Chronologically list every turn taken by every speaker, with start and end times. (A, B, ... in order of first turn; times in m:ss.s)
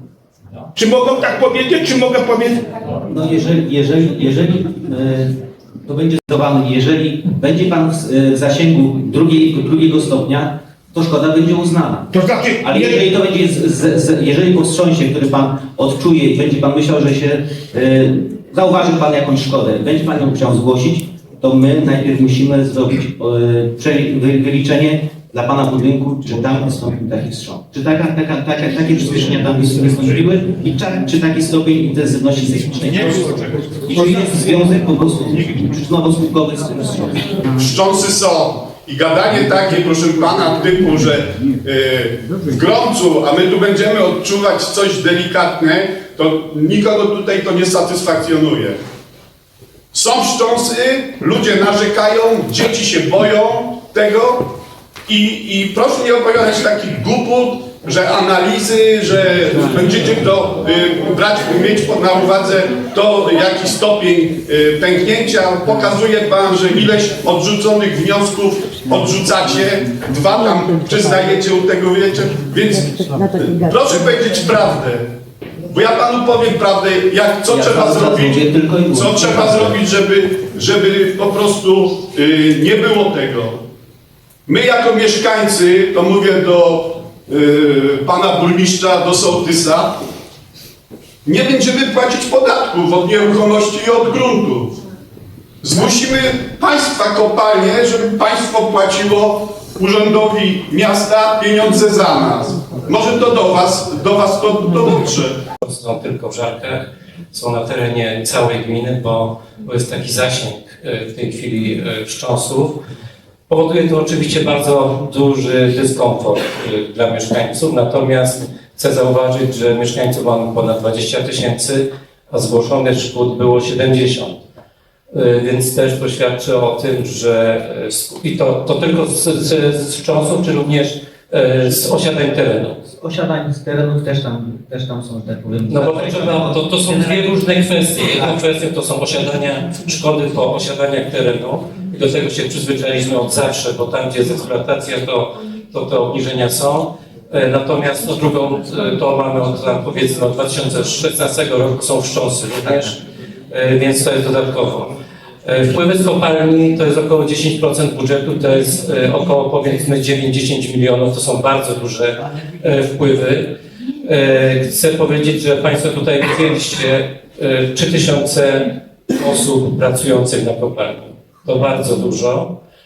0:00.7-0:02.6 A
0:03.0-0:37.4 B
0:12.1-0:13.0 A
0:37.6-0:48.8 C
0:49.9-0:54.6 C
0:55.1-1:15.1 C
1:15.7-1:23.6 C
1:17.5-1:19.8 B
1:24.5-1:30.0 C
1:31.2-1:34.8 C
1:35.6-1:45.4 C
1:45.6-1:52.8 D
1:53.5-2:04.4 D
2:05.1-2:12.8 D
2:13.0-2:17.3 B
2:15.7-2:33.0 D
2:33.5-2:43.5 D
2:44.0-2:52.5 D